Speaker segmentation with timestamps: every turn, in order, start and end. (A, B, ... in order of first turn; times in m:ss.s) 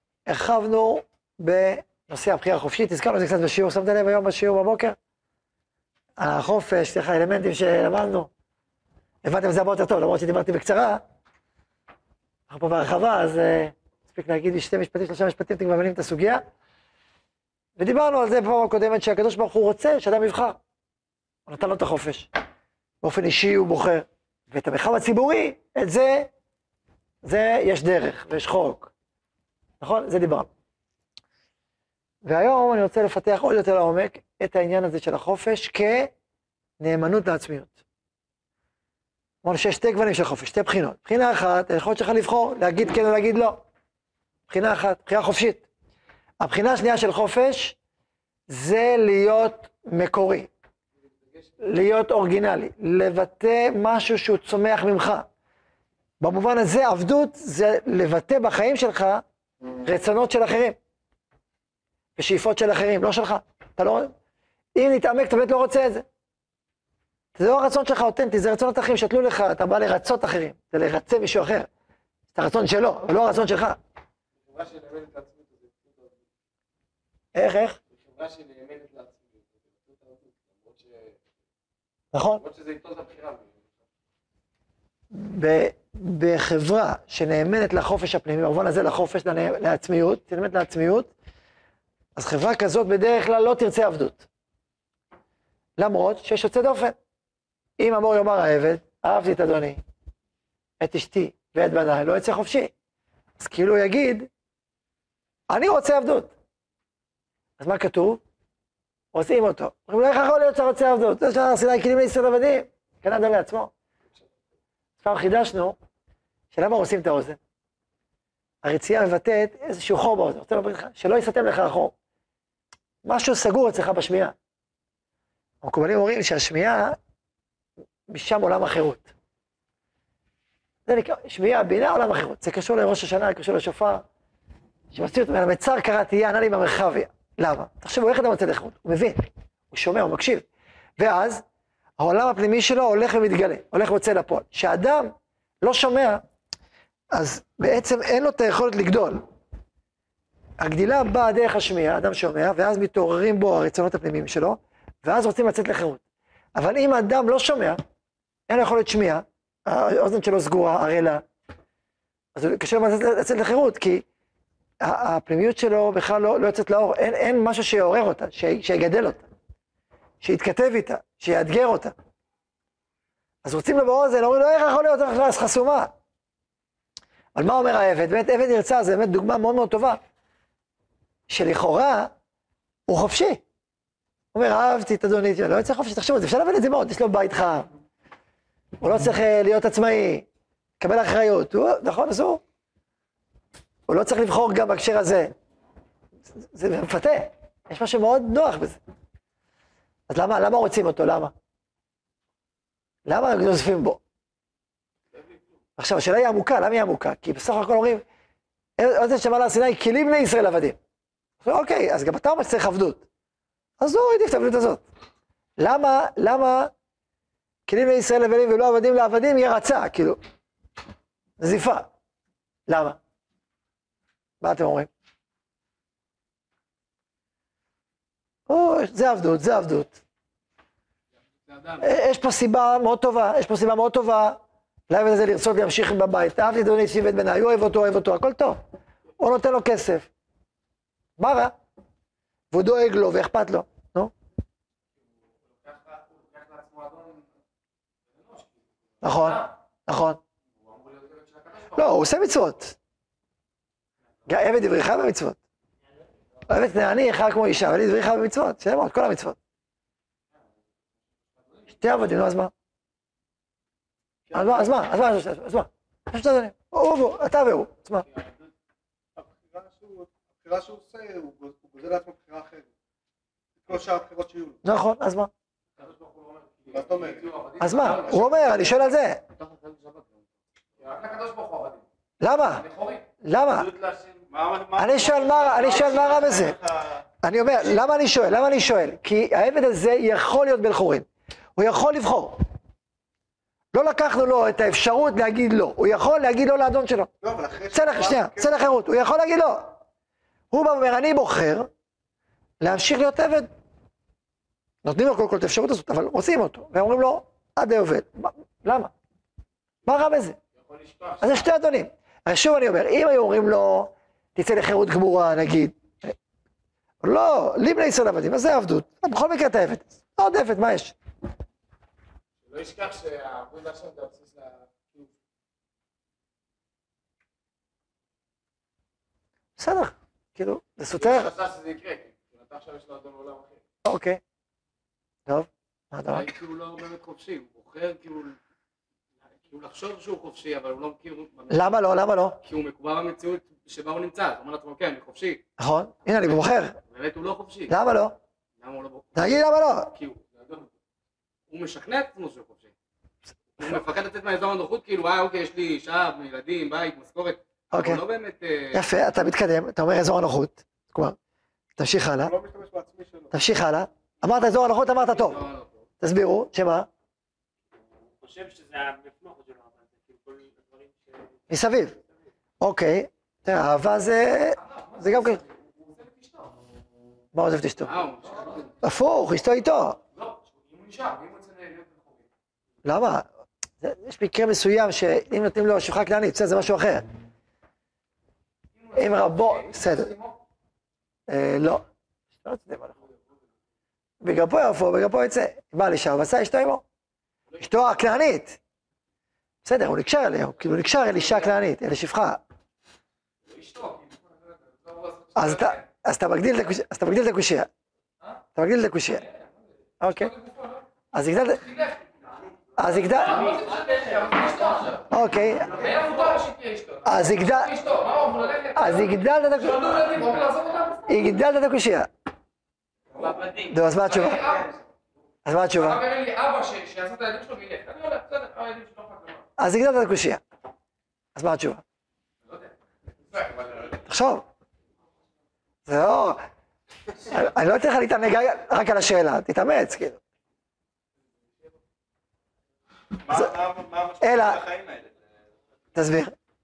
0:00.2-0:05.0 A
0:06.2-0:08.3 A
0:09.2-0:11.0 A
0:12.5-0:16.4 A
0:17.8-0:20.6 A
0:21.5-0:22.3 A
0:23.0-0:26.3 A
0:27.2-0:28.9 A
0:29.8-0:30.5 A
0:32.2-0:36.1 A
0:36.8-0:37.8 A
0:39.4-0:43.6 A
0:44.5-0:45.6 A
0:46.4-0:47.8 A
0:48.5-0:50.5 A
0:51.6-0:55.3 A
0:56.2-0:59.2 A
0:59.8-1:00.8 A
1:02.2-1:04.1 A
1:04.7-1:06.0 A
1:07.4-1:11.7 A
1:12.3-1:13.8 A
1:14.5-1:16.0 B
1:17.3-1:17.8 A
1:18.0-1:21.0 B
1:22.1-1:22.4 A
1:22.4-1:23.5 B
1:25.1-1:31.1 A
1:32.2-1:34.3 A
1:35.8-1:36.9 A
1:37.8-1:39.8 A
1:40.8-1:42.7 A
1:43.4-1:44.3 A
1:45.5-1:46.3 A
1:47.6-1:48.2 A
1:49.1-1:53.7 A
1:55.0-1:55.8 A
1:56.5-1:57.4 A
1:58.6-2:01.9 A
2:03.0-2:04.3 A
2:05.6-2:07.0 A
2:08.1-2:09.1 A
2:10.8-2:14.0 A
2:14.9-2:20.5 A
2:21.0-2:21.4 A
2:22.0-2:26.2 A
2:27.1-2:29.2 A
2:30.6-2:36.0 A
2:36.5-2:37.8 A
2:38.5-2:41.2 A
2:42.3-2:44.0 A
2:44.8-2:49.2 A
2:50.2-2:51.9 A
2:53.4-2:55.9 A
2:57.3-3:00.0 A
3:01.3-3:02.1 A
3:02.9-3:03.4 A
3:04.3-3:07.7 A
3:08.8-3:10.2 A
3:10.8-3:12.4 A
3:13.9-3:15.3 A
3:16.4-3:18.8 A
3:20.1-3:21.3 A
3:23.0-3:24.0 A
3:25.8-3:28.0 A
3:28.8-3:30.8 A
3:31.4-3:33.0 A
3:33.8-3:34.8 A
3:35.6-3:36.7 A
3:37.7-3:40.2 A
3:41.4-3:41.9 A
3:42.7-3:43.0 A
3:44.4-3:44.9 A
3:48.5-3:50.0 A
3:51.4-3:51.8 C
3:51.8-3:58.6 A
3:59.2-4:00.1 A
4:01.2-4:01.6 A
4:02.5-4:04.1 A
4:05.6-4:07.2 B
4:08.2-4:08.4 B
4:09.0-4:10.2 A
4:09.1-4:09.4 B
4:10.6-4:11.8 B
4:11.7-4:12.8 A
4:14.2-4:15.4 A
4:16.5-4:19.4 A
4:21.8-4:22.5 A
4:24.3-4:24.7 D
4:24.3-4:28.0 A
4:29.2-4:32.7 D
4:33.6-4:34.6 D
4:34.6-4:35.3 A
4:35.9-4:38.4 B
4:36.7-4:37.4 D
4:37.6-4:39.2 A
4:37.9-4:38.6 C
4:39.3-4:40.2 C
4:40.8-4:41.8 B
4:42.2-4:42.6 A
4:42.6-4:43.0 B
4:43.2-4:43.7 A
4:43.7-4:44.0 B
4:44.3-4:47.0 E
4:44.8-4:46.6 A
4:47.2-4:52.4 A
4:53.7-4:57.1 A
4:57.2-4:58.7 D
4:57.7-4:59.8 A
5:00.5-5:01.7 A
5:02.6-5:03.5 A
5:04.8-5:08.9 A
5:09.8-5:10.4 A
5:10.6-5:11.3 B
5:11.2-5:16.1 A
5:17.0-5:20.9 A
5:22.5-5:25.1 B
5:29.6-5:31.3 A
5:31.0-5:33.5 B
5:33.8-5:34.2 A
5:35.3-5:36.3 A
5:36.1-5:38.4 C
5:39.4-5:41.8 C
5:41.5-5:42.4 A
5:42.4-5:45.4 C
5:45.6-5:46.8 A
5:46.8-5:47.7 C
5:47.7-5:48.1 A
5:48.6-5:50.6 C
5:49.1-5:49.9 A
5:51.5-5:52.7 C
5:53.6-5:58.8 C
5:57.7-5:58.0 A
5:58.7-6:01.2 A
6:01.8-6:02.3 A
6:02.2-6:03.3 D
6:03.3-6:05.4 A
6:04.4-6:05.8 C
6:06.0-6:06.9 A
6:08.2-6:11.3 F
6:11.5-6:12.0 A
6:12.6-6:15.4 A
6:14.6-6:16.5 B
6:17.3-6:18.0 A
6:17.8-6:18.7 C
6:18.2-6:18.6 B
6:18.8-6:20.0 A
6:20.1-6:22.2 B
6:22.8-6:23.2 A
6:23.8-6:27.0 A
6:28.8-6:30.3 B
6:28.9-6:30.1 A
6:31.3-6:31.8 A
6:32.4-6:33.0 A
6:34.2-6:36.8 A
6:37.6-6:38.6 A
6:39.6-6:42.4 A
6:43.5-6:45.8 B
6:45.3-6:47.7 A
6:48.6-6:49.2 A
6:50.0-6:50.3 A
6:50.0-6:50.8 B
6:51.1-6:51.6 A
6:51.6-6:52.0 B
6:52.8-6:53.4 A
6:53.1-6:55.1 B
6:53.3-6:53.6 C
6:53.5-6:53.8 F
6:54.7-6:55.0 C
6:55.1-6:55.8 A
6:55.7-7:01.2 B
6:57.0-6:57.7 A
6:58.7-7:00.1 A
7:01.1-7:02.1 A
7:03.2-7:03.7 C
7:03.7-7:04.4 A
7:04.0-7:04.7 B
7:05.4-7:06.0 A
7:05.8-7:09.4 B
7:09.6-7:10.4 A
7:11.3-7:11.8 A
7:12.4-7:12.7 B
7:13.3-7:14.0 B
7:14.0-7:14.4 A
7:15.8-7:16.4 A
7:17.2-7:20.2 A
7:23.2-7:25.6 E
7:24.2-7:24.6 A
7:26.0-7:26.3 A